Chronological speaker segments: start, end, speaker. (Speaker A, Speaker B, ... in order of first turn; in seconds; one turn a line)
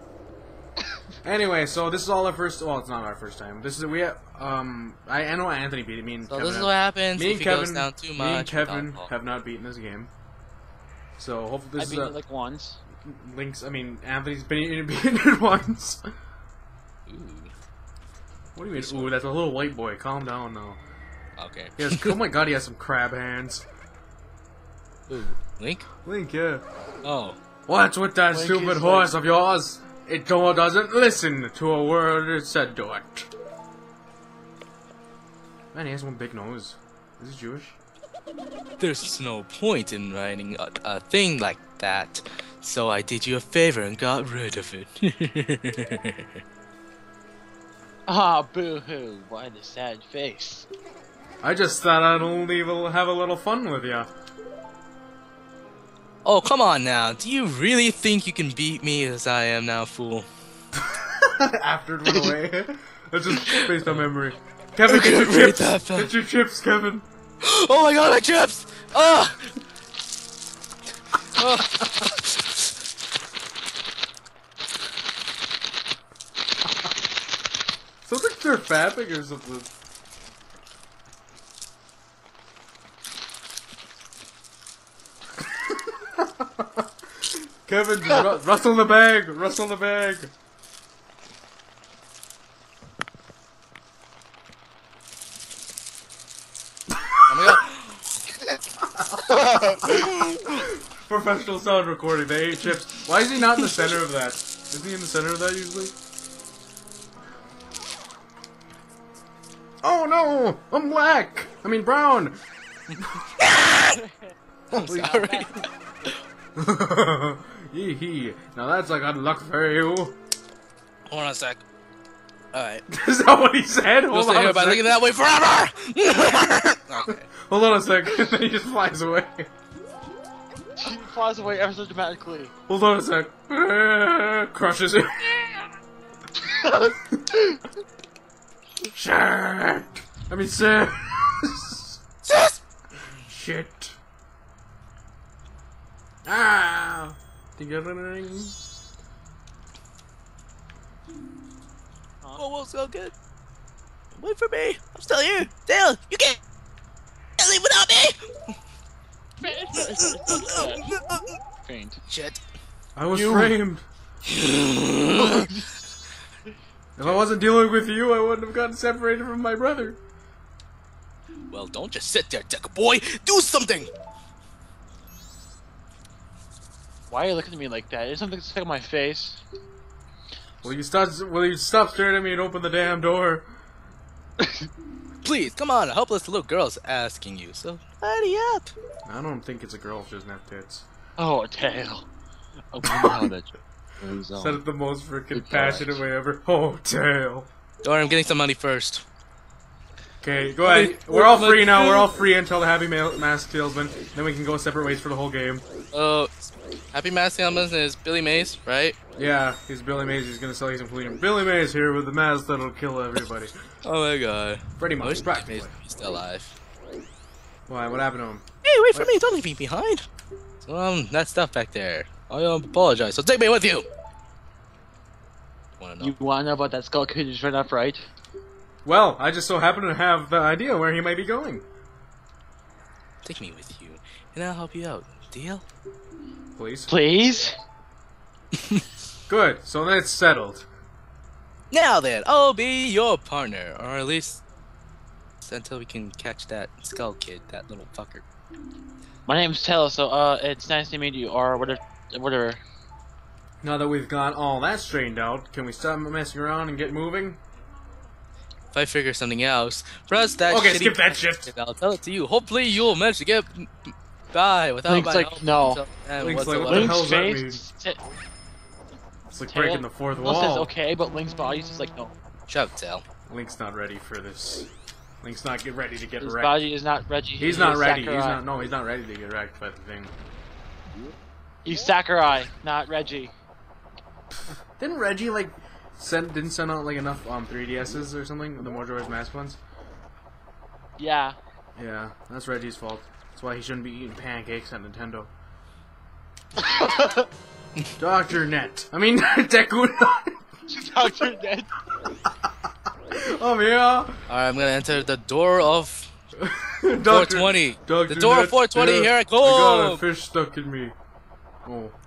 Speaker A: 1.2-10.1
Speaker B: 6.3-9.1
Speaker A: 11.2-12.2
Speaker C: 11.8-12.8
Speaker A: 13.0-16.0
Speaker B: 17.1-17.5
Speaker A: 18.5-20.8
Speaker B: 18.8-19.1
Speaker B: 21.4-22.2
Speaker A: 21.8-23.6
Speaker B: 25.1-25.9
Speaker A: 26.0-26.6
Speaker B: 27.0-27.4
Speaker A: 27.7-33.3
Speaker C: 28.3-29.1
Speaker A: 35.7-37.8
Speaker B: 38.8-46.4
Speaker C: 48.1-50.7
Speaker A: 51.4-54.1
Speaker B: 56.2-60.3
Speaker A: 60.8-67.0
Speaker B: 63.3-64.0
Speaker B: 64.8-66.1
Speaker B: 67.4-69.5
Speaker B: 71.3-72.7
Speaker A: 78.0-79.7
Speaker A: 85.7-90.3
Speaker B: 97.3-98.2
Speaker A: 98.8-105.9
Speaker C: 99.3-100.1
Speaker A: 109.8-112.4
Speaker A: 113.0-113.2
Speaker B: 113.4-114.0
Speaker C: 113.9-114.3
Speaker A: 114.7-115.3
Speaker B: 114.7-116.2
Speaker C: 114.9-115.7
Speaker A: 116.5-120.2
Speaker B: 121.1-121.6
Speaker B: 122.5-122.8
Speaker A: 122.9-124.9
Speaker B: 124.1-127.2
Speaker A: 127.4-129.5
Speaker C: 130.8-132.5
Speaker A: 132.7-135.4
Speaker C: 136.4-136.9
Speaker A: 138.8-142.4
Speaker B: 142.2-142.6
Speaker A: 143.0-143.9
Speaker A: 146.2-148.7
Speaker B: 152.4-153.1
Speaker B: 154.2-156.4
Speaker B: 157.4-158.6
Speaker C: 159.4-160.9
Speaker B: 159.7-161.4
Speaker C: 161.7-162.0
Speaker B: 162.1-162.4
Speaker A: 162.9-163.8
Speaker C: 163.1-163.5
Speaker B: 164.2-165.5
Speaker C: 165.2-165.6
Speaker A: 167.0-170.0
Speaker B: 171.5-173.9
Speaker C: 177.1-179.4
Speaker A: 180.6-183.4
Speaker C: 184.4-184.7
Speaker B: 185.2-188.7
Speaker A: 189.1-190.8
Speaker C: 191.2-192.1
Speaker C: 192.7-194.6
Speaker A: 192.8-193.3
Speaker A: 194.4-197.5
Speaker C: 195.3-196.0
Speaker B: 197.8-199.0
Speaker A: 200.2-205.7
Speaker B: 200.6-202.1
Speaker B: 205.9-209.0
Speaker A: 209.2-213.5
Speaker B: 213.8-216.6
Speaker A: 214.8-215.7
Speaker A: 217.7-219.1
Speaker B: 218.6-220.1
Speaker B: 220.6-223.9
Speaker B: 225.8-226.1
Speaker C: 226.0-228.0
Speaker A: 228.8-231.7
Speaker B: 233.2-235.6
Speaker A: 236.6-236.9
Speaker C: 236.9-237.6
Speaker B: 238.6-238.8
Speaker A: 239.3-240.7
Speaker B: 241.7-244.4
Speaker B: 245.4-248.2
Speaker C: 249.3-252.6
Speaker A: 253.6-257.4
Speaker B: 258.7-267.1
Speaker A: 260.5-261.5
Speaker C: 264.9-265.8
Speaker A: 266.2-267.6
Speaker C: 266.6-268.0
Speaker A: 269.3-270.7
Speaker C: 269.5-272.1
Speaker B: 272.5-273.0
Speaker A: 273.3-274.7
Speaker A: 275.2-276.6
Speaker C: 276.2-278.4
Speaker A: 277.4-280.1
Speaker C: 281.6-283.3
Speaker A: 284.8-289.6
Speaker C: 291.0-291.4
Speaker A: 291.8-295.3
Speaker C: 296.6-297.3
Speaker A: 298.0-300.4
Speaker C: 300.7-301.7
Speaker A: 303.1-304.2
Speaker B: 304.3-306.1
Speaker A: 306.4-310.9
Speaker B: 307.1-310.0
Speaker A: 311.6-311.9